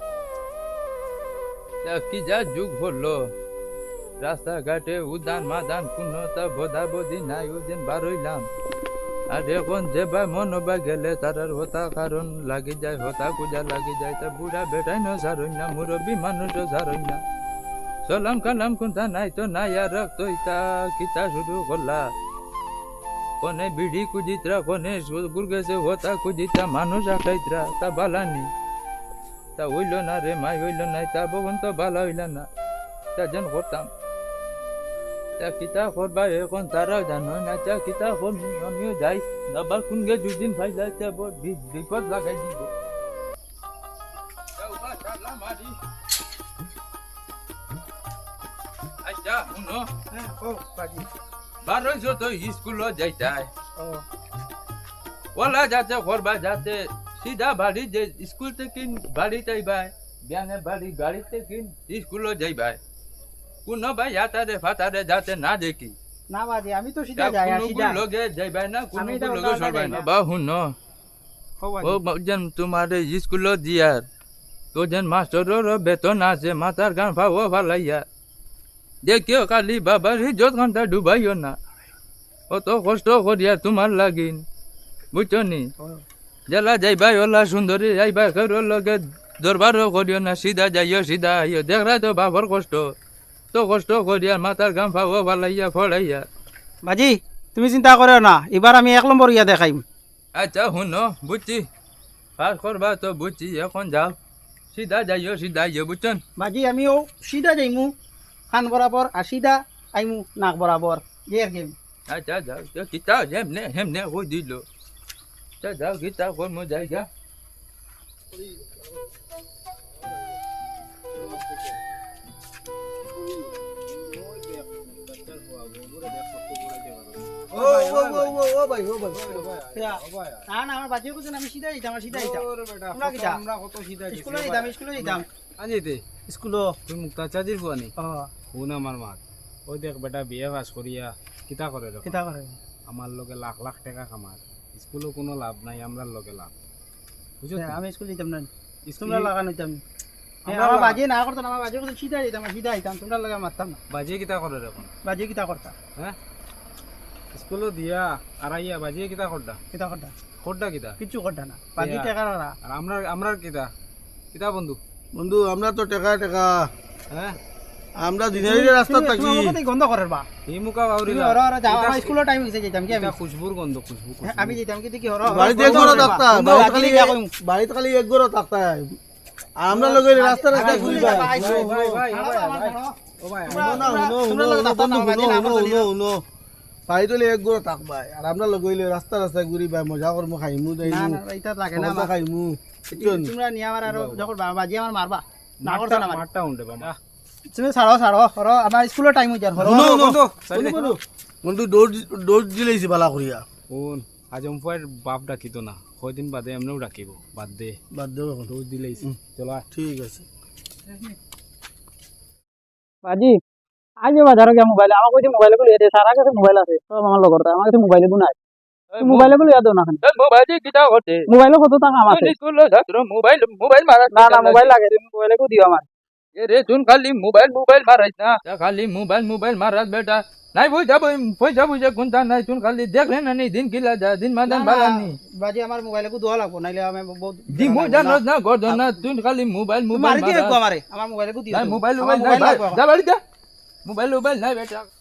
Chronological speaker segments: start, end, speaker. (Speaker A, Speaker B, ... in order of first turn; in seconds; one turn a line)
Speaker A: 1.9-3.2
Speaker A: 4.2-8.4
Speaker A: 9.3-17.2
Speaker A: 18.1-22.1
Speaker A: 23.4-28.5
Speaker A: 29.6-32.5
Speaker A: 33.2-33.9
Speaker A: 35.4-42.7
Speaker A: 44.6-45.8
Speaker A: 49.0-49.9
Speaker B: 50.1-51.1
Speaker A: 51.6-53.5
Speaker B: 53.8-54.0
Speaker A: 55.4-62.8
Speaker A: 63.7-66.0
Speaker B: 66.3-68.0
Speaker A: 67.2-70.7
Speaker B: 69.0-70.1
Speaker B: 71.6-72.0
Speaker A: 71.8-74.0
Speaker A: 74.8-78.0
Speaker A: 79.0-81.6
Speaker A: 82.5-84.4
Speaker A: 85.1-85.6
Speaker A: 86.5-92.9
Speaker A: 93.5-96.2
Speaker B: 96.8-99.8
Speaker A: 100.4-101.6
Speaker A: 102.4-104.2
Speaker A: 104.7-106.2
Speaker B: 106.4-107.9
Speaker B: 108.5-111.8
Speaker A: 112.1-114.6
Speaker A: 115.6-117.1
Speaker C: 118.4-118.8
Speaker D: 121.2-121.7
Speaker D: 123.9-128.4
Speaker C: 127.5-129.6
Speaker D: 129.1-130.5
Speaker B: 129.7-133.4
Speaker D: 132.1-136.0
Speaker B: 134.1-135.2
Speaker B: 136.3-136.7
Speaker D: 136.9-137.9
Speaker B: 138.0-138.3
Speaker D: 138.5-142.2
Speaker B: 142.0-142.6
Speaker D: 142.9-146.6
Speaker D: 147.4-147.8
Speaker B: 147.6-148.5
Speaker D: 148.9-149.3
Speaker B: 149.0-149.8
Speaker D: 150.4-151.0
Speaker B: 150.5-153.8
Speaker D: 153.9-154.9
Speaker B: 155.0-155.7
Speaker D: 157.3-159.6
Speaker B: 159.7-160.1
Speaker D: 160.4-161.0
Speaker B: 161.0-162.6
Speaker D: 161.8-162.1
Speaker D: 162.7-163.7
Speaker D: 164.3-164.8
Speaker C: 165.1-166.7
Speaker D: 167.1-167.4
Speaker C: 168.0-169.6
Speaker B: 168.3-170.3
Speaker D: 170.5-172.2
Speaker B: 171.1-173.1
Speaker D: 172.9-174.6
Speaker B: 174.2-177.3
Speaker C: 175.3-179.0
Speaker D: 175.5-176.1
Speaker C: 179.6-182.0
Speaker D: 179.7-180.0
Speaker B: 180.0-183.0
Speaker D: 180.5-183.9
Speaker B: 183.5-185.9
Speaker C: 183.5-186.2
Speaker C: 186.9-193.3
Speaker B: 190.8-192.1
Speaker B: 192.9-196.2
Speaker D: 193.9-194.3
Speaker D: 195.6-197.0
Speaker B: 197.5-200.0
Speaker D: 199.6-201.0
Speaker C: 199.6-200.2
Speaker B: 200.5-201.0
Speaker C: 201.4-203.4
Speaker D: 203.7-207.8
Speaker C: 207.9-208.5
Speaker D: 208.5-209.7
Speaker C: 209.7-210.3
Speaker B: 213.0-213.4
Speaker B: 214.0-218.3
Speaker A: 218.9-221.2
Speaker B: 219.0-220.0
Speaker B: 221.3-222.3
Speaker A: 222.1-225.0
Speaker B: 224.1-225.8
Speaker A: 226.4-235.2
Speaker B: 234.5-238.9
Speaker A: 237.5-240.6
Speaker B: 239.9-242.8
Speaker A: 241.5-243.2
Speaker A: 243.9-244.9